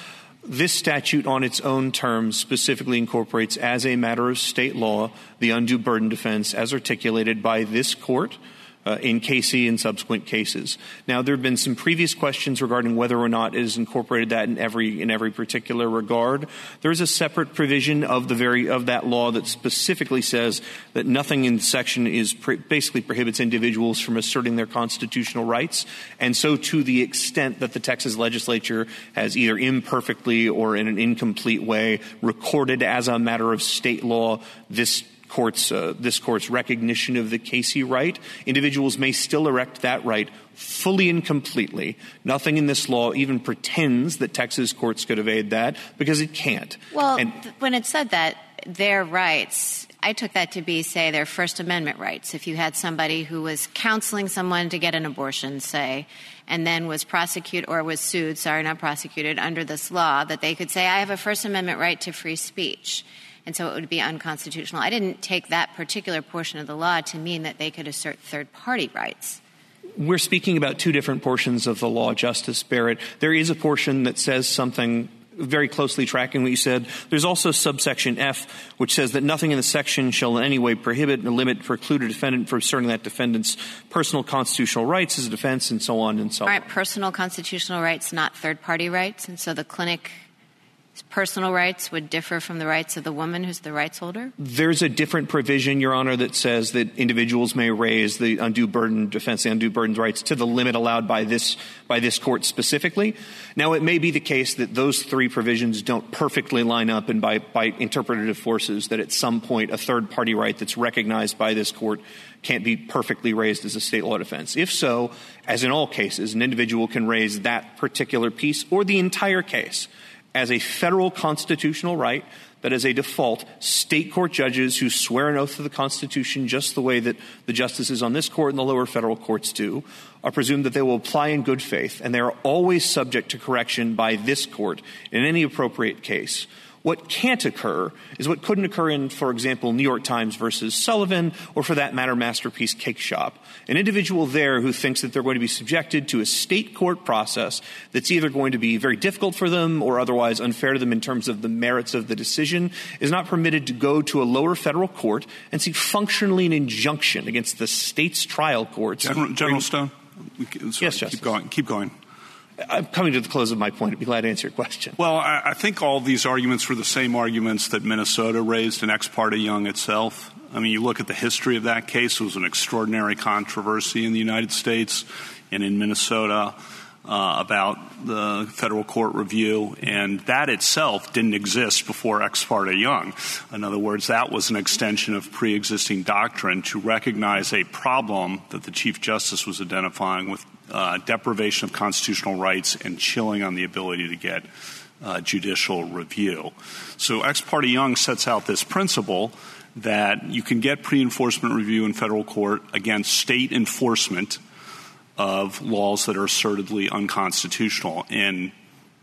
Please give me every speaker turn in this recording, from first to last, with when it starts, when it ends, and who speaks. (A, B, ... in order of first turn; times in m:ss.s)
0:00.4-0:47.3 A
0:46.9-1:09.4 B
1:10.0-1:26.6 A
1:26.4-1:30.2 B
1:31.0-1:34.3 B
1:34.4-2:39.6 A
2:39.0-2:41.9 C
2:40.8-2:41.3 A
2:42.6-2:45.0 A
2:45.0-3:14.5 C
3:15.0-3:24.4 C
3:25.2-3:28.5 C